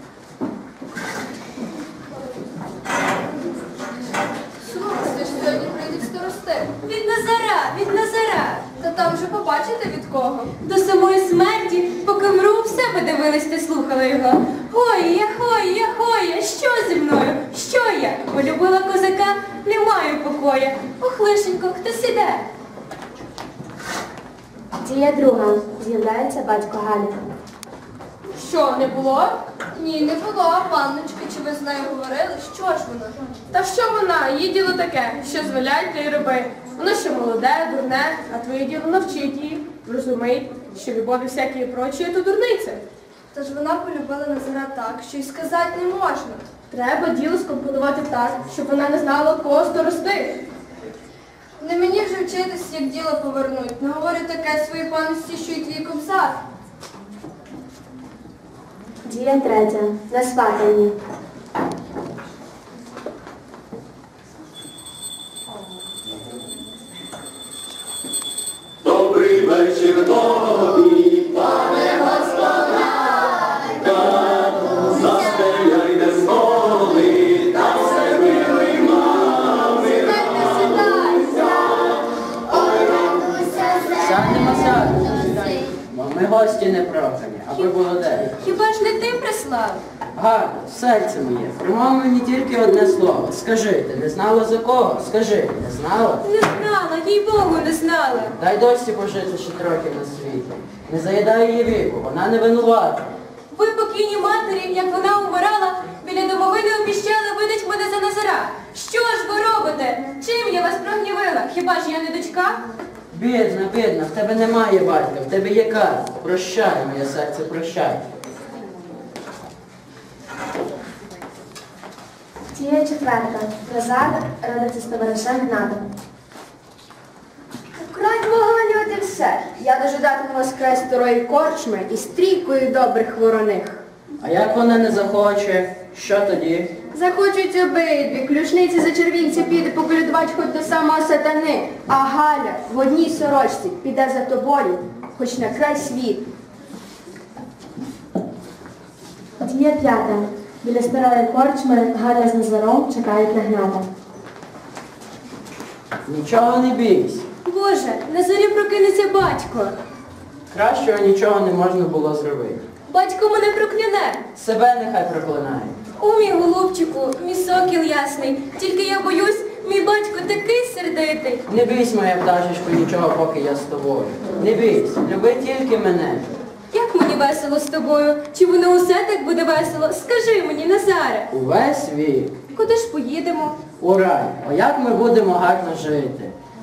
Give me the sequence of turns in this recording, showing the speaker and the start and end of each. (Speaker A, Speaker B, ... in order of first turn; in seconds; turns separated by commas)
Speaker A: 4.6-6.7, Speaker B: 6.8-8.7, Speaker A: 8.8-10.6, Speaker B: 10.6-22.5, Speaker C: 24.8-27.2, Speaker D: 28.4-29.4, Speaker A: 29.7-33.2, Speaker D: 33.5-42.8, Speaker A: 43.3-46.5, Speaker D: 46.7-50.4, Speaker A: 51.6-56.4, Speaker C: 59.1-61.0, Speaker E: 69.0-71.2, Speaker B: 71.8-72.6, Speaker B: 74.8-75.5, Speaker E: 75.8-76.2, Speaker B: 76.3-76.8, Speaker B: 77.5-81.9, Speaker E: 83.9-88.3, Speaker B: 88.4-89.8, Speaker E: 90.1-96.2, Speaker B: 96.2-98.4, Speaker E: 98.4-103.1, Speaker B: 103.5-112.6, Speaker E: 113.1-118.0, Speaker C: 122.5-125.8, Speaker F: 127.8-133.8, Speaker E: 134.2-136.7, Speaker F: 136.9-146.2, Speaker C: 149.4-153.9, Speaker E: 156.1-157.2, Speaker B: 157.4-159.8, Speaker E: 160.5-162.7, Speaker B: 162.9-164.3, Speaker E: 164.3-165.8, Speaker B: 166.0-171.4, Speaker E: 171.5-176.3, Speaker B: 176.7-181.3, Speaker E: 181.3-182.4, Speaker B: 182.5-183.6, Speaker E: 183.8-186.3